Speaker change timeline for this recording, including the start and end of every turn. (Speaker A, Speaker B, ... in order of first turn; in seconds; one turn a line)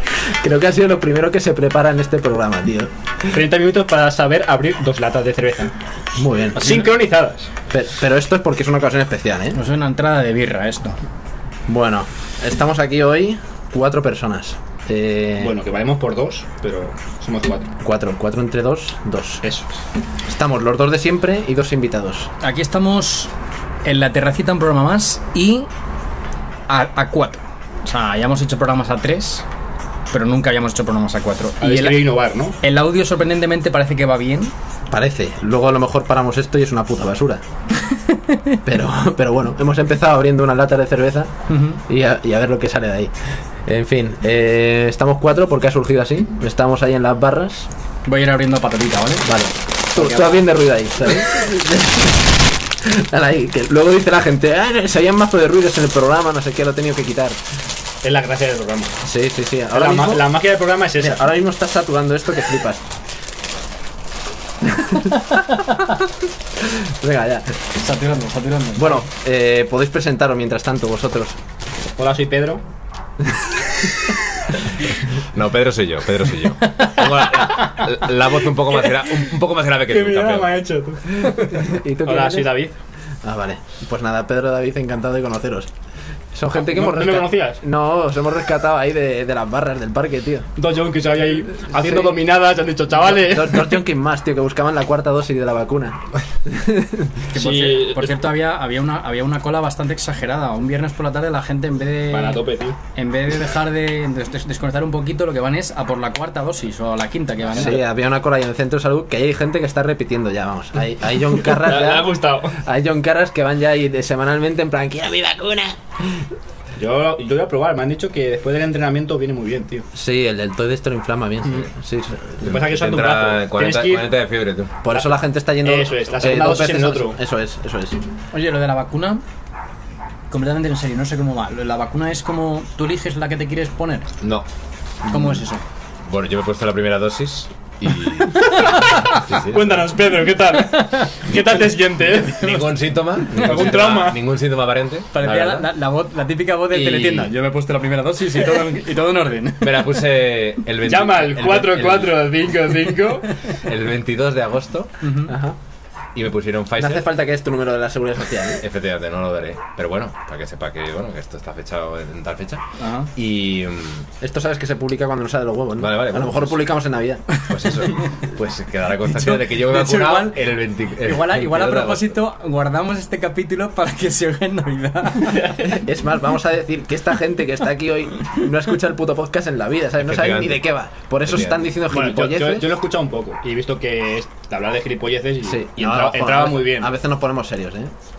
Speaker A: 0.2-2.9
Speaker B: 3.2-5.7
Speaker A: 6.2-6.8
Speaker B: 6.5-7.5
Speaker A: 7.7-9.6
Speaker C: 9.5-11.0
Speaker A: 11.7-15.5
Speaker B: 15.4-17.7
Speaker A: 17.8-19.4
Speaker B: 19.4-19.8
Speaker A: 20.2-22.3
Speaker C: 22.4-23.3
Speaker C: 23.8-25.7
Speaker C: 26.7-29.4
Speaker C: 30.1-34.5
Speaker B: 31.6-32.6
Speaker A: 34.9-37.4
Speaker C: 38.1-38.5
Speaker A: 38.6-43.1
Speaker C: 41.5-41.8
Speaker A: 43.6-47.7
Speaker C: 48.0-49.3
Speaker A: 49.2-57.4
Speaker C: 50.0-50.4
Speaker B: 58.0-59.0
Speaker A: 59.0-60.3
Speaker B: 59.7-61.2
Speaker A: 61.0-62.8
Speaker A: 64.6-65.4
Speaker A: 66.6-67.6
Speaker C: 67.7-69.0
Speaker A: 68.8-71.4
Speaker B: 72.0-72.6
Speaker D: 75.1-80.6
Speaker C: 76.6-77.1
Speaker B: 79.9-82.7
Speaker A: 81.2-82.6
Speaker A: 83.2-85.7
Speaker A: 86.3-90.5
Speaker B: 86.5-87.6
Speaker B: 90.5-93.8
Speaker A: 91.7-92.1
Speaker A: 93.1-97.2
Speaker C: 97.3-102.4
Speaker B: 97.3-98.2
Speaker B: 102.1-102.8
Speaker C: 102.9-107.8
Speaker A: 107.5-116.2
Speaker B: 111.5-112.6
Speaker B: 116.8-119.9
Speaker A: 119.9-122.5
Speaker B: 122.4-124.1
Speaker D: 122.4-124.7
Speaker A: 124.8-128.0
Speaker B: 125.6-127.2
Speaker C: 128.3-129.2
Speaker C: 130.3-134.1
Speaker D: 134.2-134.4
Speaker D: 135.1-135.4
Speaker C: 135.1-135.6
Speaker D: 136.1-140.0
Speaker B: 138.5-142.6
Speaker C: 140.7-141.3
Speaker D: 142.3-145.7
Speaker B: 143.3-144.2
Speaker C: 145.1-150.0
Speaker B: 146.8-147.2
Speaker D: 149.6-152.3
Speaker B: 150.8-153.4
Speaker D: 153.5-154.9
Speaker C: 155.0-155.4
Speaker A: 155.3-155.6
Speaker D: 156.1-157.1
Speaker A: 156.8-158.6
Speaker D: 158.6-162.6
Speaker C: 162.8-163.1
Speaker D: 163.1-164.1
Speaker A: 164.2-167.4
Speaker D: 165.8-166.6
Speaker D: 167.4-172.1
Speaker C: 169.1-170.4
Speaker C: 171.0-175.8
Speaker B: 175.2-175.6
Speaker A: 175.6-182.7
Speaker D: 180.0-180.7
Speaker D: 181.2-181.7
Speaker B: 181.9-186.9
Speaker A: 185.4-187.9